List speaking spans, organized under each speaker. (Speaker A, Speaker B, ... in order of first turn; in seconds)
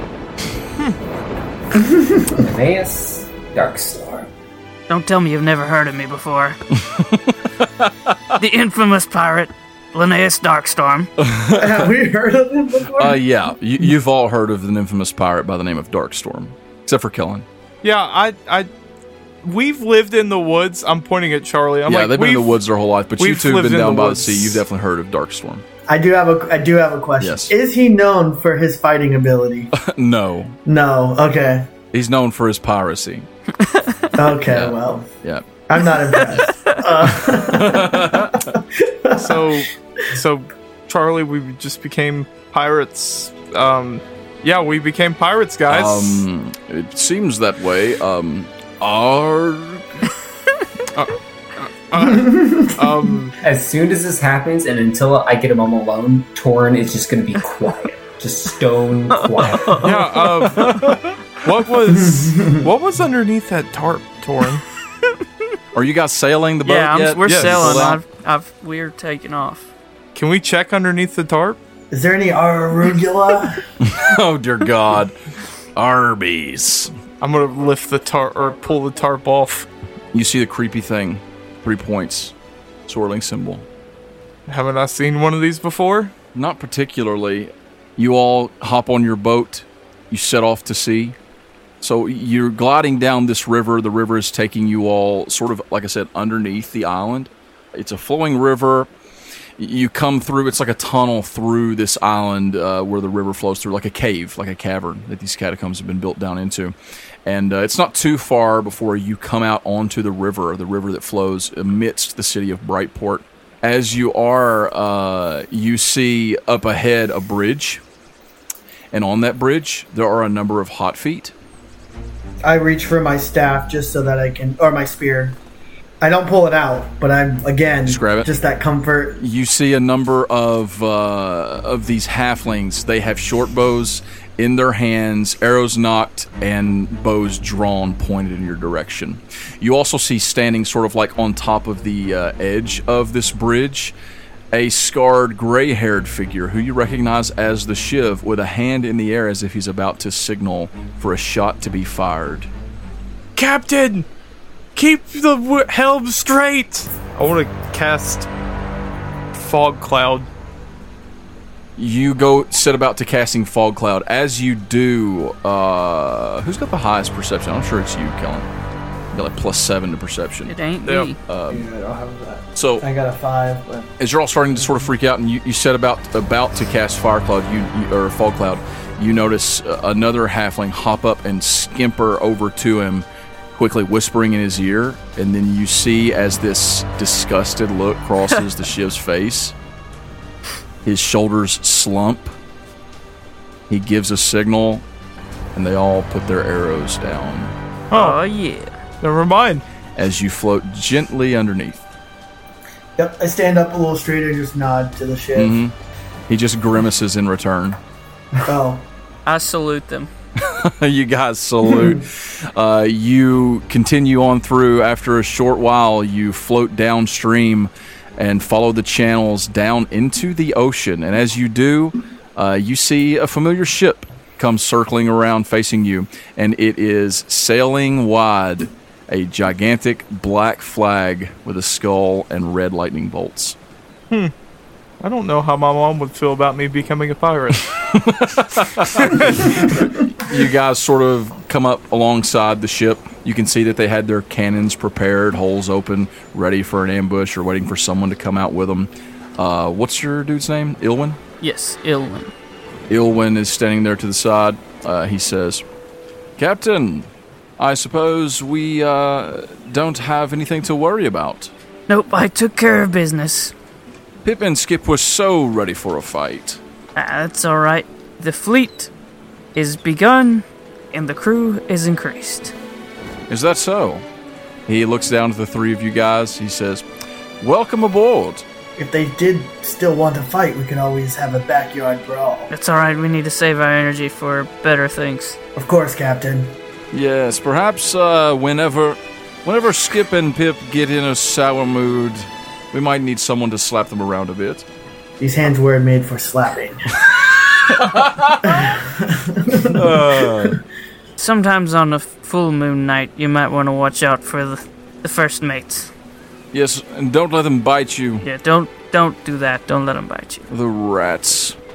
Speaker A: 2.3-4.3, 53.4-59.9
Speaker B: 4.9-6.6, 8.4-11.1, 33.6-34.0, 59.7-60.0, 66.6-69.7, 170.5-171.2, 197.9-198.7, 209.2-210.1, 251.4-252.3, 261.9-263.5, 266.9-268.9, 269.5-272.5, 282.5-285.4, 301.2-305.9, 308.2-310.5
Speaker C: 6.8-8.1, 11.2-11.9, 12.9-17.4, 21.9-25.6, 27.2-27.5, 29.7-30.6, 31.9-33.3, 34.5-35.4, 37.0-38.5, 45.7-50.0, 65.7-68.0, 73.8-75.1, 75.8-76.9, 80.1-82.3, 82.9-83.7, 86.3-91.2, 91.8-98.9, 99.6-106.7, 107.2-117.8, 118.9-121.3, 127.8-128.3, 129.2-143.9, 144.5-152.5, 161.8-168.5, 169.1-170.5, 171.2-171.7, 172.5-172.8, 174.0-189.5, 190.8-192.3, 193.7-194.8, 195.5-197.5, 199.9-201.8, 205.3-205.7, 206.3-207.8, 210.4-233.6, 237.9-251.2, 252.9-255.6, 256.4-261.5, 264.2-266.6, 273.3-274.0, 274.7-276.8, 277.4-278.4, 286.9-294.6, 297.1-298.7, 299.6-300.6, 306.5-308.2, 310.5-311.6
Speaker D: 11.6-13.2, 25.9-29.7, 30.6-31.7, 34.1-35.1, 35.7-39.6, 52.0-52.7, 61.9-62.7, 71.9-73.6, 122.4-125.4, 126.0-129.2, 171.5-173.9, 203.0-205.6, 208.4-208.8, 278.8-282.5, 285.6-286.5, 295.2-297.0, 298.4-299.9
Speaker E: 17.8-18.7, 19.4-22.6, 23.2-24.6, 39.1-46.2, 50.9-53.4, 59.8-64.6, 67.3-68.0, 70.1-71.6, 77.2-79.7, 84.5-86.1, 153.3-154.1, 154.7-158.3, 159.3-160.3, 170.8-171.1, 197.9-198.2, 199.0-199.6, 235.0-237.7, 239.1-239.6